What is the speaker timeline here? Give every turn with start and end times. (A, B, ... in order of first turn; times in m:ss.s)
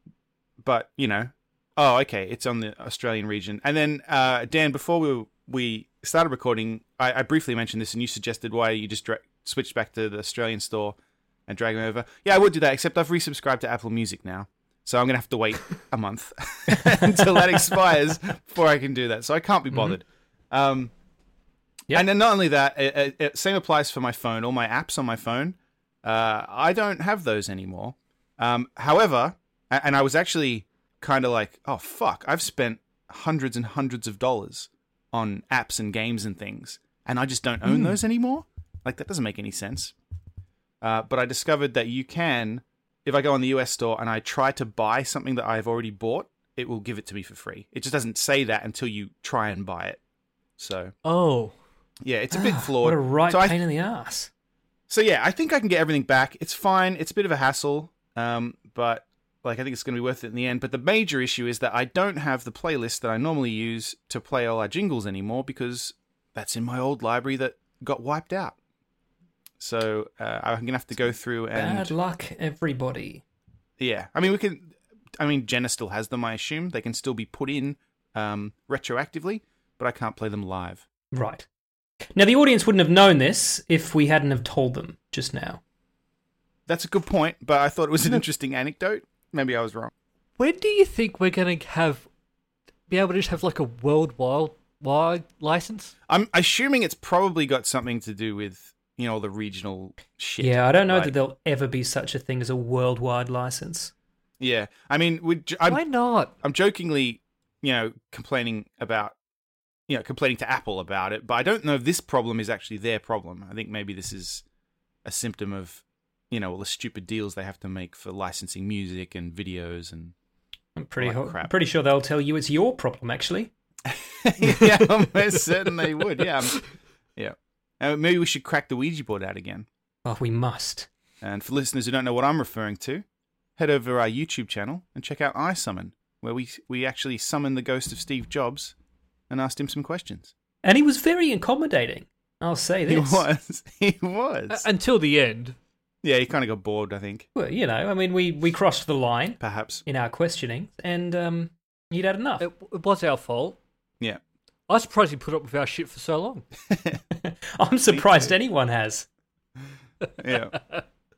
0:00.6-0:20.9 A
0:21.9-0:39.9 A
0:37.7-0:37.9 B
0:40.8-0:50.0 A
0:50.6-0:50.9 A
0:51.0-0:51.6 C
0:52.0-0:53.6 A
0:52.3-0:54.3 B
0:54.9-1:08.6 A
1:09.6-1:11.9 A
1:11.5-1:13.2 B
1:13.8-1:20.8 A
1:21.1-1:21.4 B
1:22.1-1:25.6 B
1:26.7-1:29.9 A
1:30.4-1:32.1 C
1:32.9-1:35.9 C
1:36.1-1:41.1 A
1:40.4-1:43.9 B
1:44.4-1:45.8 A
1:45.7-1:46.3 C
1:46.4-1:49.2 A
1:49.9-1:54.4 A
1:55.0-2:00.1 A
2:00.8-2:03.5 B
2:01.0-2:01.5 A
2:03.8-2:06.6 A
2:07.2-2:09.7 A
2:10.0-2:10.9 B
2:11.2-2:13.0 A
2:13.6-2:18.7 A
2:19.3-2:20.3 A
2:20.6-2:23.2 B
2:22.9-2:24.6 A
2:24.5-2:25.6 C
2:26.0-2:27.3 A
2:27.3-2:32.5 B
2:29.4-2:29.8 A
2:32.4-2:33.6 C
2:34.7-2:36.4 C
2:36.7-2:37.0 A
2:37.2-2:39.1 B
2:37.9-2:38.3 A
2:40.2-2:40.6 A